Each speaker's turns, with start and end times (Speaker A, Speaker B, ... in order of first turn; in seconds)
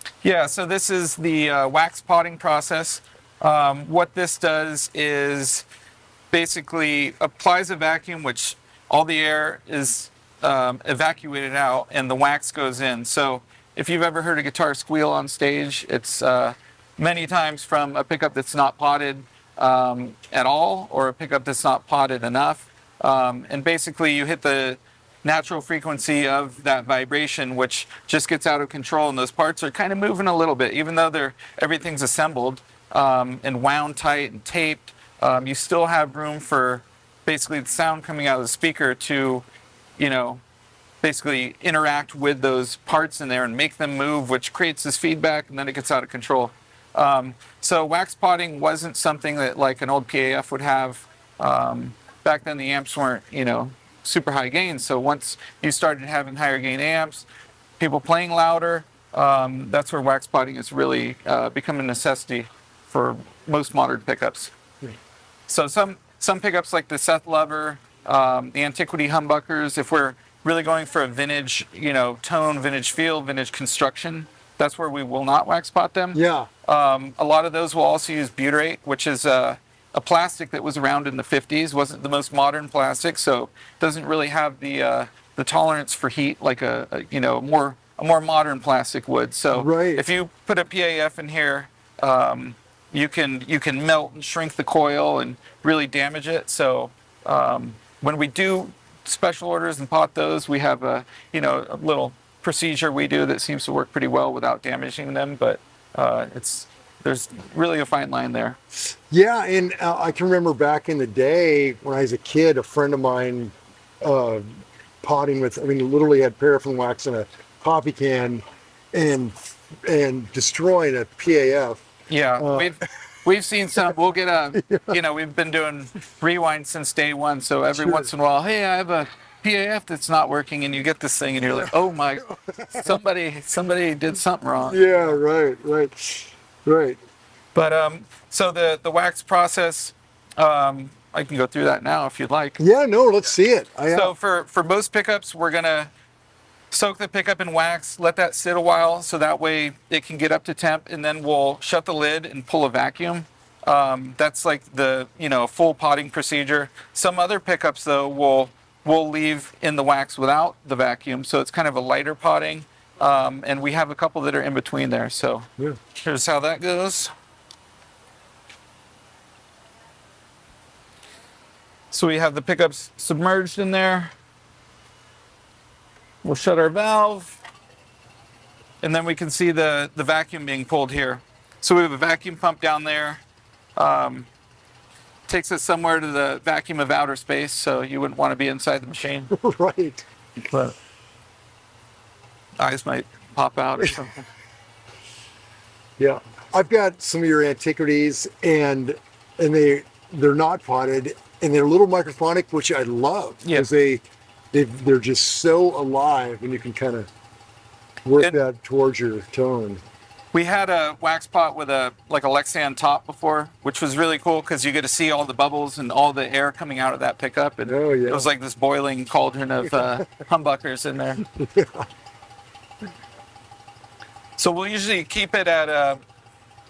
Speaker A: 0.2-5.7, 6.3-39.4, 40.0-40.4, 41.0-57.2, 57.8-64.5, 65.5-108.6, 122.1-134.8, 137.5-142.6, 143.9-145.9, 146.7-167.1, 171.9-174.1, 176.2-177.4, 178.8-183.2, 183.8-184.3, 185.3-189.3, 190.5-190.8, 192.6-194.2, 210.3-221.2, 224.4-226.0
Speaker B: 76.1-76.5, 89.5-90.0, 109.1-121.8, 122.4-122.7, 124.5-125.0, 127.8-128.1, 134.7-137.0, 142.6-144.1, 189.3-190.0, 196.0-204.0, 204.5-207.1, 208.1-209.8, 217.7-218.2, 221.3-221.9